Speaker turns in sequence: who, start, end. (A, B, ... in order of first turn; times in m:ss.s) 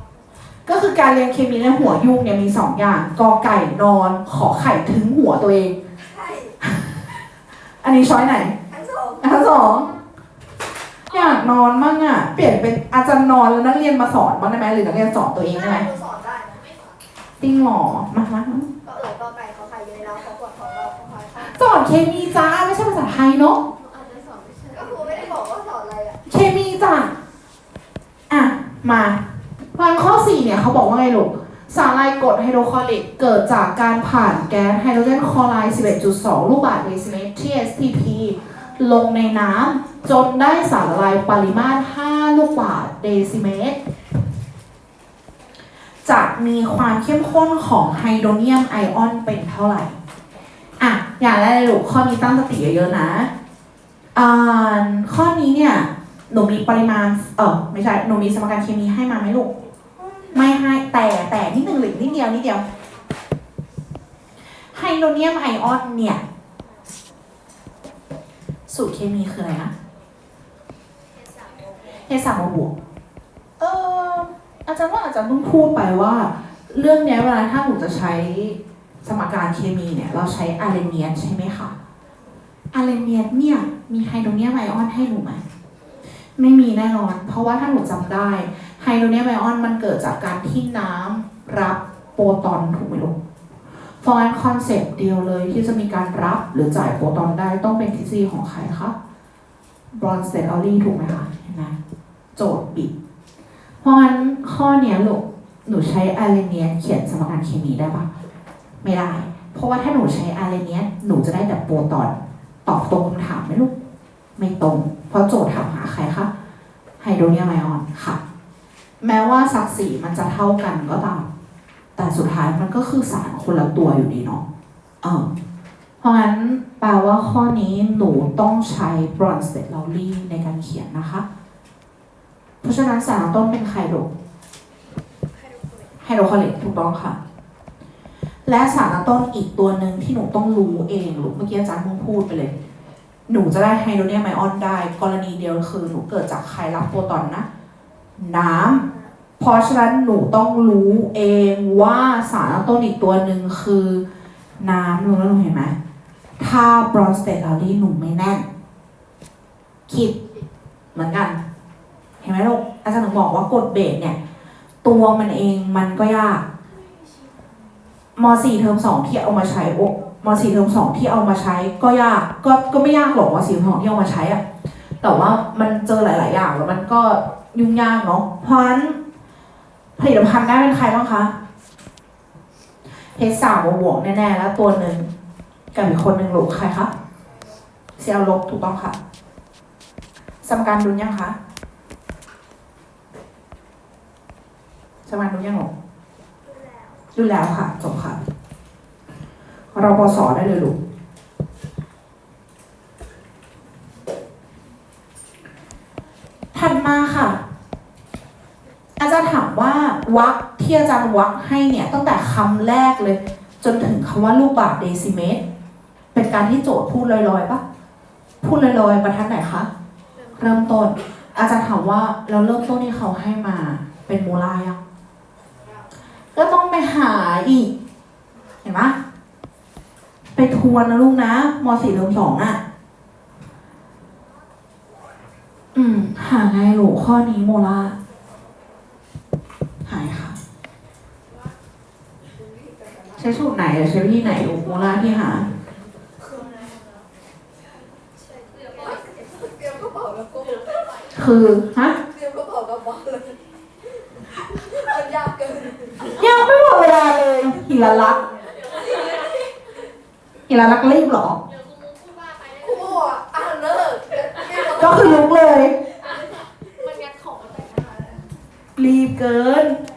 0:00.6-0:05.8 A
0:06.1-0:06.5 B
0:06.6-0:07.0 A
0:07.8-0:08.6 A
0:08.8-0:09.2 B
0:09.2-0:10.0 A
0:11.1-0:15.9 A
0:15.8-0:16.7 B
0:17.4-0:18.7 A
0:18.9-0:21.4 B
0:21.4-0:23.6 A
0:24.7-0:26.1 B
0:26.2-0:27.1 A
0:28.3-0:29.2 A
0:29.7-0:43.8 A
0:46.0-0:50.0 A
0:50.8-0:53.3 A
0:54.1-0:59.5 A
1:00.3-1:02.6 A
1:04.7-1:06.2 A
1:08.7-1:09.7 A
1:12.1-1:12.7 A
1:13.6-1:21.7 A
1:22.7-1:25.4 A
1:26.4-1:33.1 A
1:34.0-1:38.9 A
1:39.9-1:41.7 A
1:42.4-1:42.9 A
1:43.8-1:48.1 A
1:48.8-1:53.7 A
1:54.4-1:56.3 A
1:57.0-1:58.2 A
1:59.0-2:01.3 A
2:02.0-2:04.4 A
2:05.0-2:05.3 A
2:06.0-2:11.2 A
2:12.6-2:14.1 A
2:16.0-2:17.2 A
2:18.4-2:22.5 A
2:23.3-2:27.4 A
2:28.2-2:28.8 A
2:29.4-2:34.0 A
2:34.6-2:35.7 A
2:36.4-2:38.4 A
2:39.9-2:40.1 A
2:40.9-2:41.4 A
2:42.2-2:44.2 A
2:44.8-2:46.4 A
2:48.2-2:54.4 A
2:55.0-2:59.0 A
3:00.0-3:01.3 A
3:03.2-3:05.1 A
3:05.7-3:06.9 A
3:08.0-3:09.0 A
3:10.4-3:11.4 A
3:15.0-3:15.7 A
3:17.2-3:18.2 A
3:19.7-3:20.8 A
3:26.5-3:27.4 A
3:29.0-3:35.4 A
3:36.1-3:37.6 A
3:38.4-3:39.7 A
3:40.4-3:44.8 A
3:46.3-3:47.7 A
3:48.6-3:49.0 A
3:50.4-3:52.6 A
3:55.7-3:58.0 A
3:59.8-4:00.4 A
4:03.2-4:05.5 A
4:09.6-4:10.6 B
4:11.1-4:12.0 A
4:12.2-4:13.4 B
4:14.8-4:15.9 B
4:16.0-4:18.2 A
4:20.5-4:21.4 A
4:22.6-4:24.7 B
4:24.7-4:25.8 A
4:26.8-4:27.9 B
4:28.8-4:29.8 A